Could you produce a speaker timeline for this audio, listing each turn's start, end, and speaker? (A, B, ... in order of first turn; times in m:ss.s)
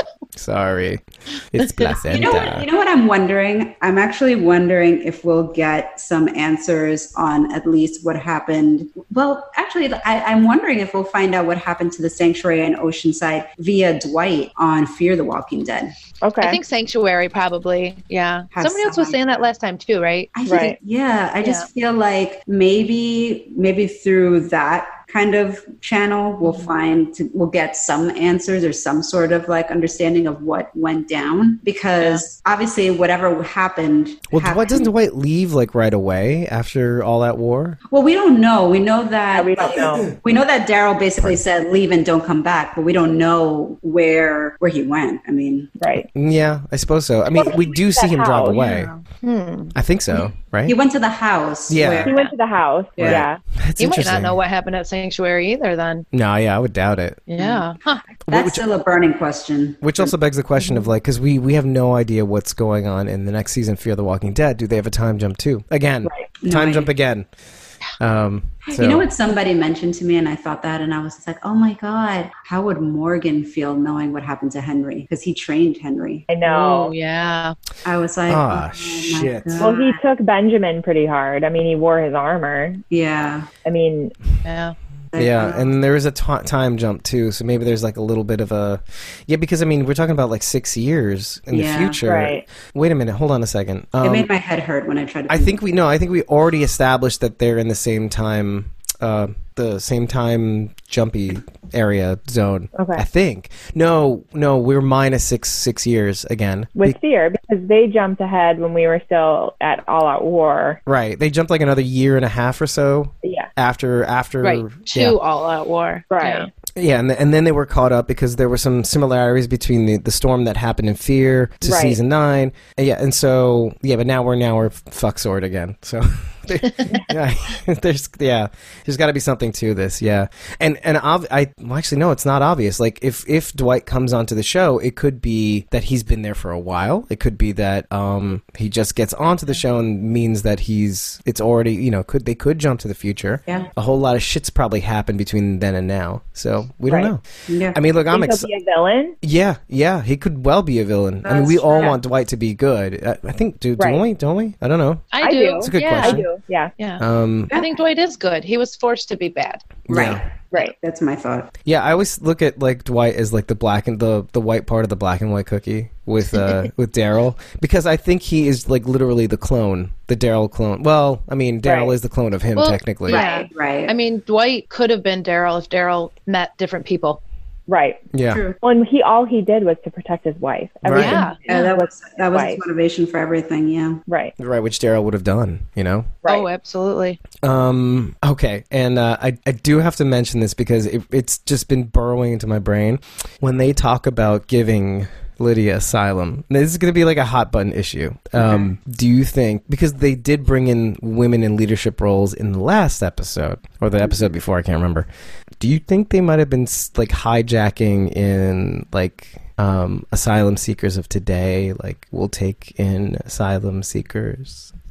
0:00.4-0:02.7 A
0:01.6-0:02.0 B
0:02.1-0:15.9 C
0:16.2-0:16.6 D
0:16.4-0:20.4 B
0:18.5-0:19.4 C
0:20.4-0:34.9 C
0:20.4-0:20.8 D
0:21.4-0:21.7 B
0:34.3-0:37.8 A
0:37.9-0:45.7 C
0:39.3-0:40.1 D
0:45.8-0:46.1 D
0:46.1-0:48.9 A
0:47.3-0:48.8 D
0:48.6-0:49.7 B
0:49.7-0:50.8 A
0:50.7-0:52.1 C
0:51.7-0:52.1 A
0:52.0-0:53.4 D
0:53.0-0:53.2 C
0:53.0-0:54.4 A
0:53.8-0:56.0 B
0:56.1-0:57.2 A
0:57.3-0:58.0 B
0:57.4-0:57.6 C
0:58.3-1:00.1 C
0:58.3-0:58.6 A
0:59.8-1:07.2 A
1:06.4-1:06.9 C
1:08.0-1:09.1 A
1:08.6-1:16.3 C
1:16.3-1:16.9 D
1:16.4-1:17.6 B
1:17.8-1:20.0 C
1:18.3-1:19.7 A
1:19.6-1:22.8 D
1:22.9-1:23.5 C
1:23.6-1:24.1 D
1:24.4-1:24.7 B
1:25.1-1:25.7 C
1:25.1-1:34.3 A
1:31.5-1:32.0 C
1:32.0-1:32.4 D
1:34.0-1:35.6 C
1:35.3-1:47.0 A
1:42.7-1:43.0 D
1:46.8-1:50.8 D
1:50.8-1:55.2 A
1:53.2-1:53.5 D
1:54.4-1:56.5 B
1:56.1-1:56.5 D
1:56.8-2:28.5 A
2:01.6-2:02.0 D
2:27.5-2:27.8 C
2:28.1-2:29.2 D
2:29.2-2:36.3 A
2:31.2-2:32.0 C
2:33.8-2:34.0 D
2:35.1-2:36.2 B
2:35.2-2:36.7 D
2:36.8-2:39.6 B
2:37.0-2:37.5 A
2:39.9-2:40.2 A
2:39.9-2:41.5 C
2:41.6-2:53.2 A
2:51.6-2:51.9 D
2:52.6-2:57.2 B
2:53.1-2:54.0 C
2:57.7-2:58.0 D
2:58.1-2:58.4 A
2:58.3-2:58.6 C
2:58.6-3:02.6 D
3:00.8-3:01.2 A
3:01.0-3:01.7 B
3:01.5-3:04.0 C
3:04.1-3:04.3 D
3:04.4-3:06.1 A
3:06.2-3:07.2 B
3:07.4-3:25.1 A
3:18.4-3:18.7 C
3:25.6-3:34.7 A